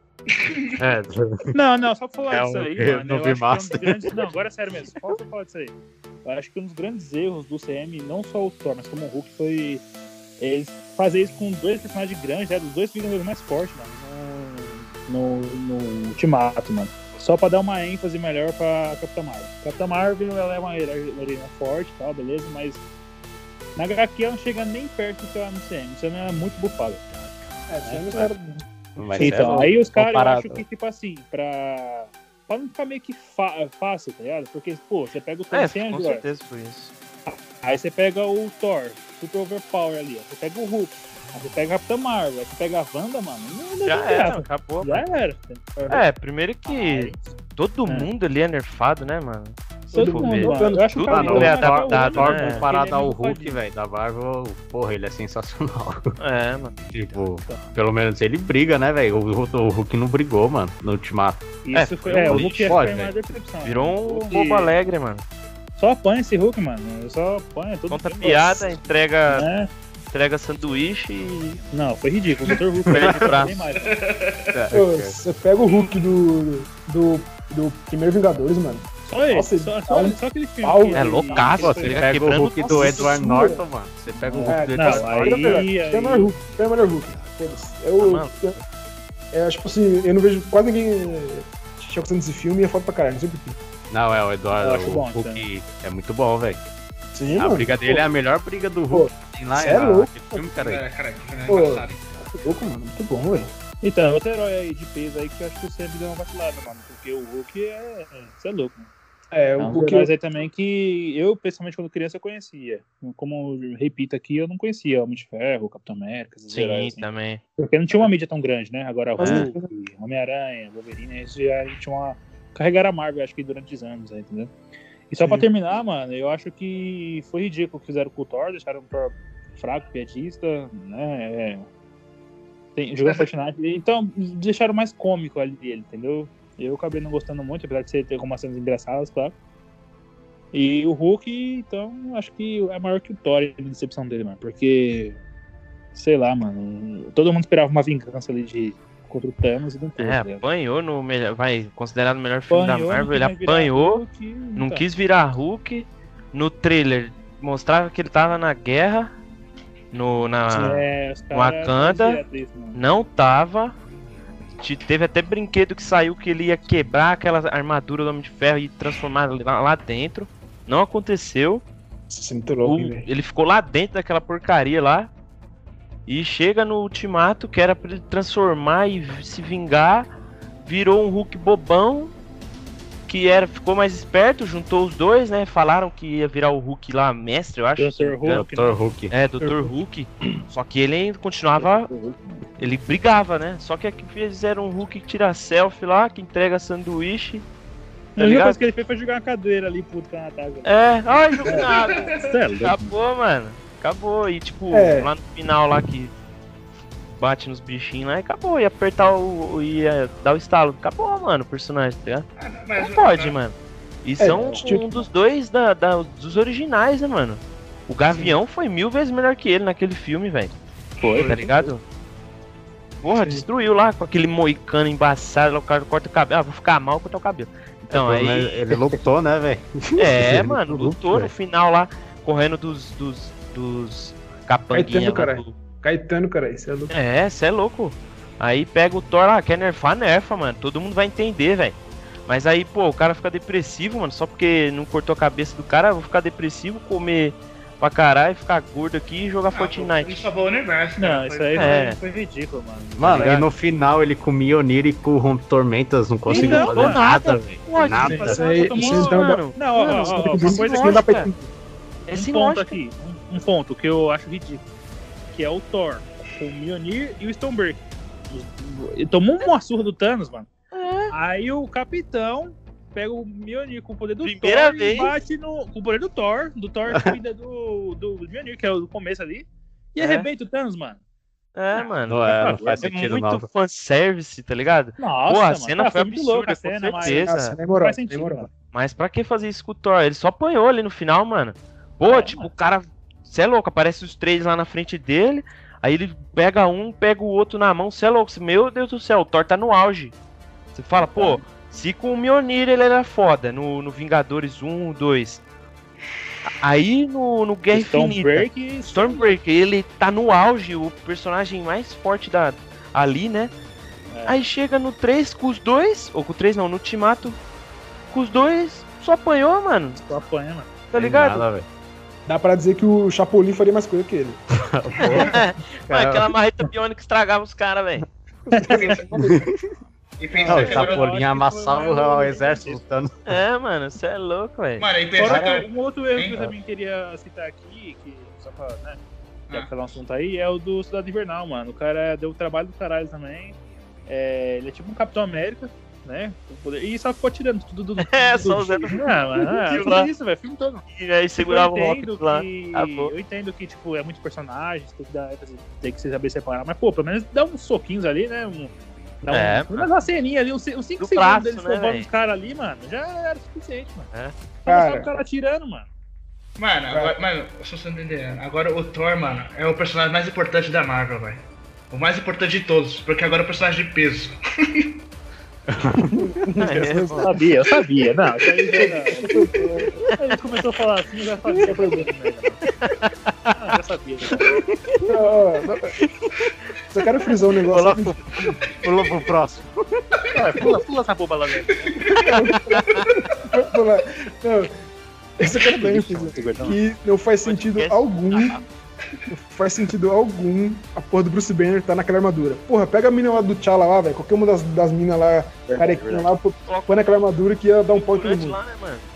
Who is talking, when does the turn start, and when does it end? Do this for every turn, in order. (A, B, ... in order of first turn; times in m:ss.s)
0:00.8-0:01.5 A
0:01.5-0:09.8 B
0:02.3-0:04.1 A
0:10.4-0:22.8 B
0:23.8-0:27.0 B
0:27.7-0:28.6 C
0:27.8-0:28.3 B
0:29.0-0:30.6 A
0:29.1-0:36.2 B
0:29.2-0:29.6 C
0:35.5-0:36.9 D
0:37.3-0:45.7 B
0:43.8-0:45.2 D
0:45.8-0:46.0 C
0:45.9-0:52.7 D
0:46.6-0:47.3 B
0:49.9-0:53.6 B
0:49.9-0:51.5 C
0:51.0-0:56.0 A
0:56.2-0:56.7 D
0:56.9-1:01.5 A
1:01.6-1:04.8 B
1:01.7-1:02.8 D
1:02.2-1:03.1 A
1:03.6-1:05.2 D
1:05.8-1:08.7 B
1:07.9-1:09.5 D
1:09.3-1:09.7 B
1:10.1-1:11.6 D
1:11.7-1:14.0 B
1:12.8-1:13.7 D
1:12.8-1:13.3 A
1:13.8-1:14.5 E
1:14.5-1:15.2 A
1:14.7-1:21.5 C
1:19.1-1:22.0 B
1:20.9-1:23.0 D
1:21.2-1:25.7 A
1:22.6-1:23.6 C
1:24.2-1:26.3 B
1:24.4-1:28.5 C
1:28.0-1:28.5 D
1:29.3-1:33.6 C
1:33.9-1:36.6 A
1:34.5-1:35.4 B
1:37.1-1:38.0 C
1:37.4-1:40.8 A
1:38.9-1:40.4 C
1:40.6-1:42.0 E
1:41.5-1:43.5 C
1:43.8-1:48.9 B
1:49.3-1:50.1 C
1:49.6-1:57.0 B
1:56.5-1:57.4 D
1:57.6-2:04.5 B
1:59.2-1:59.7 C
1:59.2-1:59.5 D
2:05.1-2:11.7 B
2:05.2-2:05.4 C
2:12.8-2:19.3 B
2:20.5-2:25.2 B
2:25.9-2:30.4 B
2:30.0-2:34.0 D
2:32.5-2:34.8 B
2:34.6-2:39.1 D
2:39.9-2:42.2 D
2:40.5-2:40.8 C
2:40.6-2:42.8 B
2:42.7-2:43.8 D
2:44.5-2:51.6 D
2:52.1-2:53.0 C
2:52.6-2:55.1 D
2:56.1-3:00.1 D
3:00.6-3:02.1 D
3:03.1-3:08.5 D
3:07.8-3:08.8 B
3:08.3-3:09.1 A
3:09.1-3:11.9 D
3:09.4-3:09.7 C
3:11.6-3:12.4 B
3:12.6-3:17.4 D
3:18.2-3:23.0 B
3:18.2-3:18.6 D
3:20.6-3:26.1 D
3:24.7-3:25.1 C
3:27.2-3:40.5 D
3:32.4-3:33.4 E
3:34.2-3:35.0 C
3:34.3-3:34.6 B
3:38.1-3:38.4 C
3:41.0-3:41.6 B
3:41.2-3:41.8 D
3:43.0-3:48.9 D
3:43.1-3:43.4 C
3:47.9-3:51.3 A
3:50.0-3:55.5 D
3:54.7-3:56.9 C
3:56.9-4:01.8 D
4:02.3-4:10.3 D
4:09.5-4:12.0 E
4:11.0-4:13.4 B
4:11.6-4:12.0 D
4:13.0-4:18.5 A
4:13.0-4:13.5 D
4:16.3-4:17.0 B
4:16.3-4:21.3 D
4:17.9-4:21.1 B
4:18.0-4:21.5 C
4:22.1-4:22.8 D
4:22.1-4:24.6 B
4:25.3-4:30.5 B
4:30.7-4:31.1 D
4:31.1-4:41.0 B
4:34.2-4:35.1 D
4:36.9-4:37.2 A
4:40.0-4:40.3 D
4:41.6-4:47.6 D
4:41.7-4:42.9 B
4:42.1-4:43.5 A
4:45.0-4:48.5 B
4:47.0-4:48.5 C
4:48.7-5:00.1 D
4:52.1-4:52.5 B
5:00.7-5:05.4 D
5:01.0-5:01.4 B
5:06.6-5:13.5 D
5:07.7-5:09.3 B
5:14.1-5:14.4 B
5:14.2-5:17.4 D
5:18.1-5:20.0 D
5:20.0-5:20.7 B
5:20.9-5:21.4 D
5:20.9-5:21.6 A
5:22.2-5:24.4 C
5:24.6-5:26.3 A
5:25.1-5:28.0 D
5:28.5-5:29.5 C
5:28.7-5:29.0 B
5:28.8-5:29.3 E
5:30.2-5:31.2 E
5:30.3-5:30.8 C
5:30.5-5:32.8 B
5:30.5-5:33.3 A
5:33.3-5:34.9 D
5:34.8-5:36.5 E
5:35.1-5:43.6 B
5:35.2-5:35.6 A
5:44.1-5:50.8 B
5:48.0-5:50.1 D
5:50.9-5:53.1 D
5:51.4-6:04.1 B
5:59.3-5:59.9 D
6:01.0-6:02.1 D
6:04.6-6:05.9 B
6:04.7-6:05.1 C
6:06.6-6:14.9 E
6:15.7-6:16.3 A
6:16.1-6:17.5 C
6:16.6-6:17.5 D
6:17.2-6:19.2 B
6:18.7-6:20.1 C
6:20.2-6:22.6 B
6:21.5-6:22.1 C
6:22.8-6:23.1 D
6:23.6-6:24.6 B
6:25.0-6:25.9 C
6:26.9-6:28.6 C
6:27.7-6:30.0 A
6:30.3-6:32.1 B
6:31.7-6:32.3 E
6:32.3-6:34.7 C
6:32.7-6:33.0 D
6:35.4-6:38.6 C
6:35.7-6:36.8 B
6:37.4-6:38.6 D
6:39.3-6:48.6 C
6:45.7-6:46.3 B
6:47.9-6:49.0 D